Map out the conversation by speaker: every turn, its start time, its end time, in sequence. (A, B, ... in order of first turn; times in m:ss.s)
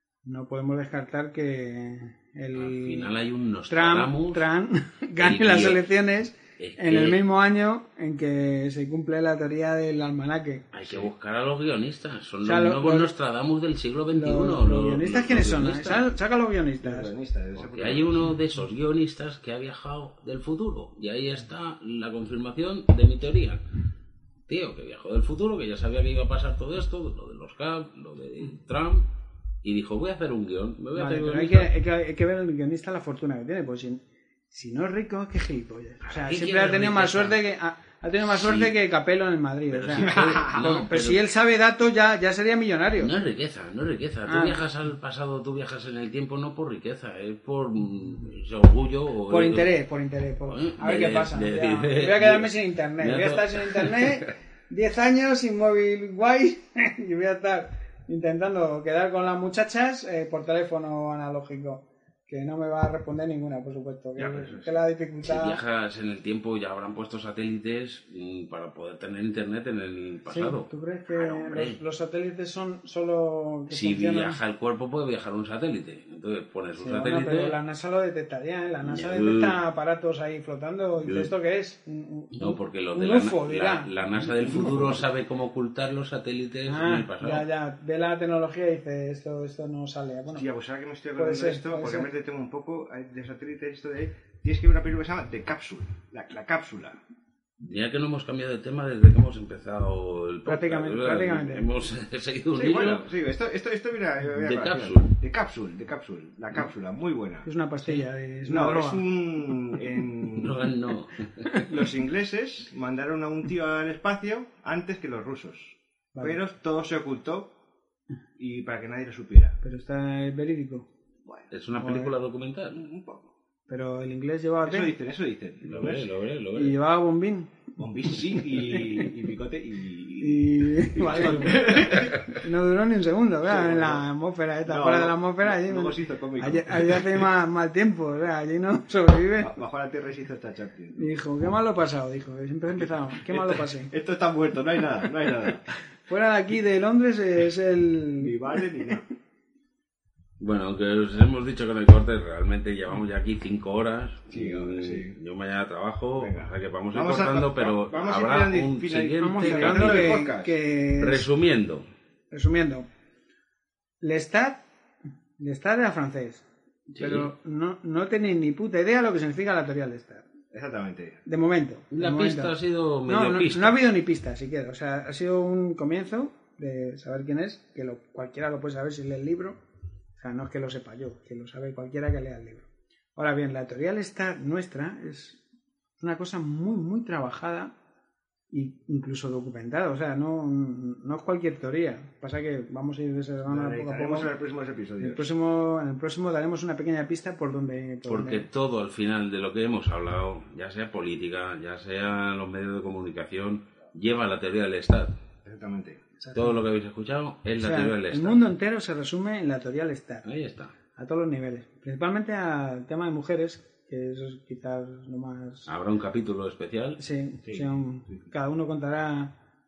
0:00.2-0:03.1 A
0:02.5-0:04.4 B
0:03.7-0:10.7 A
0:05.2-0:05.8 B
0:06.6-0:07.2 B
0:10.7-0:16.0 B
0:12.4-0:13.1 A
0:14.1-0:17.1 A
0:16.8-0:18.3 C
0:17.6-0:23.6 B
0:24.5-0:29.1 B
0:29.6-0:31.7 B
0:31.0-0:43.1 A
0:36.0-0:37.4 B
0:38.3-0:38.7 B
0:39.7-0:41.2 B
0:40.0-0:40.7 C
0:43.0-0:49.7 B
0:44.3-0:44.6 A
0:49.3-1:05.6 A
0:50.5-0:54.3 B
1:04.2-1:04.8 C
1:05.2-1:11.8 B
1:10.3-1:14.4 A
1:13.7-1:17.6 B
1:16.8-1:25.0 A
1:18.8-1:19.6 B
1:21.0-1:21.3 B
1:22.4-1:27.5 B
1:26.7-1:30.5 A
1:30.3-1:37.0 C
1:31.2-1:32.1 A
1:37.6-1:43.0 B
1:40.5-1:41.7 A
1:42.6-1:47.5 C
1:44.3-1:45.2 B
1:47.4-1:49.0 A
1:48.5-1:50.6 C
1:50.4-1:51.6 B
1:51.5-1:57.5 C
1:58.4-1:59.6 C
1:59.6-2:00.9 A
2:01.5-2:02.9 B
2:01.7-2:02.1 A
2:02.7-2:03.3 C
2:03.7-2:04.9 A
2:04.6-2:06.1 C
2:05.6-2:06.8 B
2:06.6-2:07.5 A
2:07.8-2:12.4 C
2:10.2-2:19.5 A
2:11.1-2:12.0 B
2:13.4-2:14.0 C
2:14.7-2:17.2 C
2:19.4-2:21.1 C
2:21.0-2:23.9 A
2:23.3-2:25.8 C
2:26.1-2:28.4 A
2:28.2-2:29.0 C
2:30.4-2:40.2 B
2:34.3-2:35.2 C
2:36.2-2:40.6 C
2:39.2-2:41.3 A
2:41.0-2:41.9 B
2:42.3-2:42.9 A
2:44.0-2:44.6 A
2:45.4-2:50.3 A
2:47.0-2:47.3 B
2:50.5-2:51.2 C
2:51.2-2:52.5 A
2:51.9-2:53.8 B
2:53.1-2:59.6 A
3:00.2-3:05.4 A
3:06.0-3:07.7 A
3:08.5-3:14.3 A
3:13.5-3:15.3 C
3:15.0-3:18.5 A
3:18.1-3:25.1 B
3:25.4-3:26.0 C
3:26.2-3:26.6 A
3:26.4-3:28.4 B
3:27.6-3:30.2 A
3:30.2-3:30.7 B
3:31.0-3:35.7 A
3:35.7-3:37.0 B
3:37.0-3:39.3 A
3:37.4-3:37.7 C